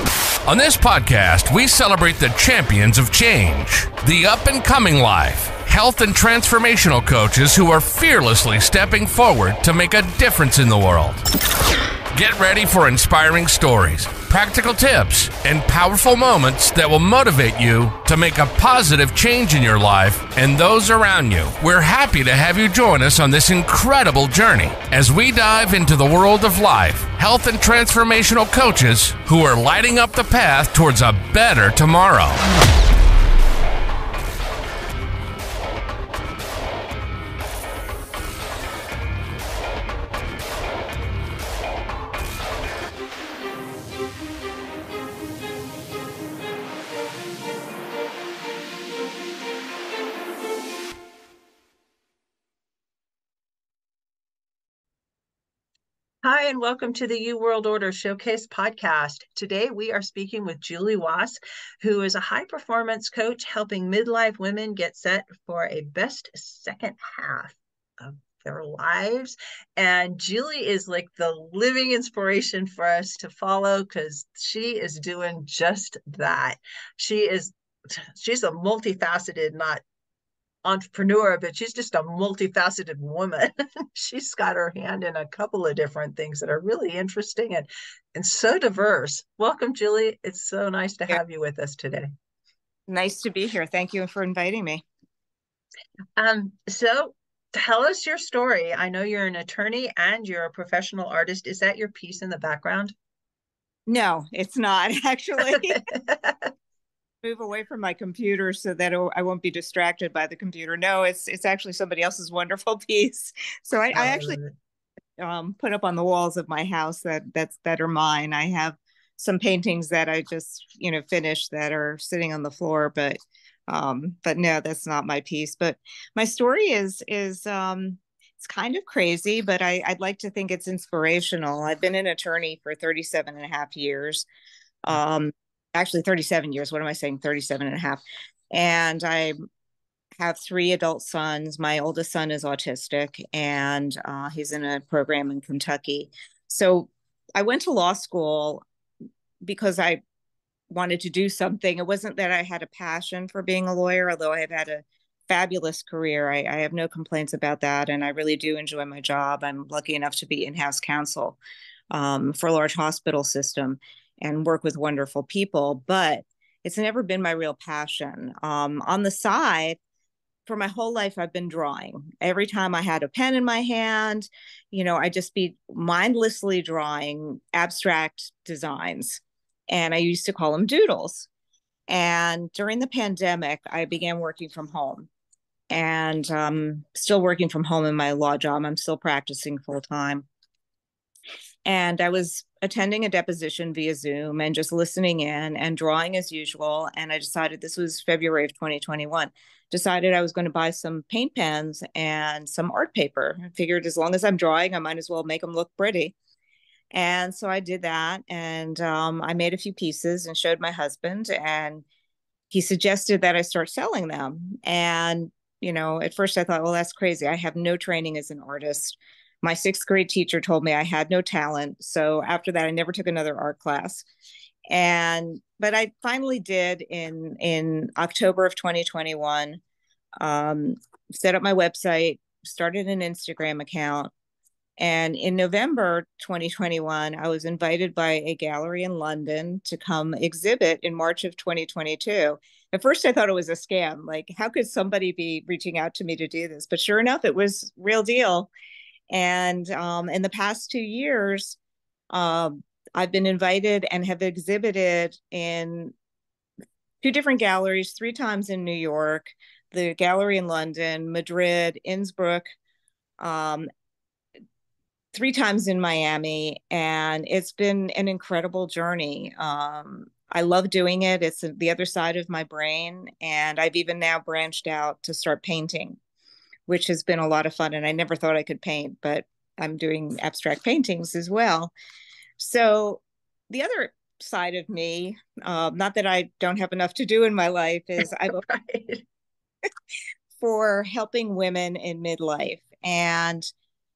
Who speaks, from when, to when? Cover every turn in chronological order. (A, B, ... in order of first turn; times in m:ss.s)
0:00.4-0:11.2 A
0:12.1-0:32.4 A
0:56.2-1:19.8 B
1:20.6-1:32.1 B
1:32.9-1:34.8 C
1:36.2-1:42.9 B
1:43.9-1:45.8 C
1:45.5-1:46.5 B
1:47.2-1:54.4 C
1:53.9-1:54.5 B
1:55.2-2:14.3 C
2:14.8-2:19.4 C
2:20.2-2:28.6 C
2:29.4-2:30.0 C
2:30.7-2:41.4 C
2:41.9-2:49.8 C
2:50.4-3:01.3 C
3:01.9-3:05.1 C
3:05.7-3:10.2 C
3:11.6-3:26.1 C
3:26.9-3:31.8 C
3:32.5-3:44.0 C
3:44.7-3:49.6 C
3:50.2-3:54.1 C
3:54.8-4:08.5 C
4:09.1-4:11.6 C
4:12.1-4:15.9 C
4:17.0-4:22.5 C
4:23.2-4:23.7 C
4:25.1-4:36.0 C
4:36.7-4:41.7 C
4:42.4-4:48.4 C
4:48.0-4:49.0 B
4:50.4-4:53.5 C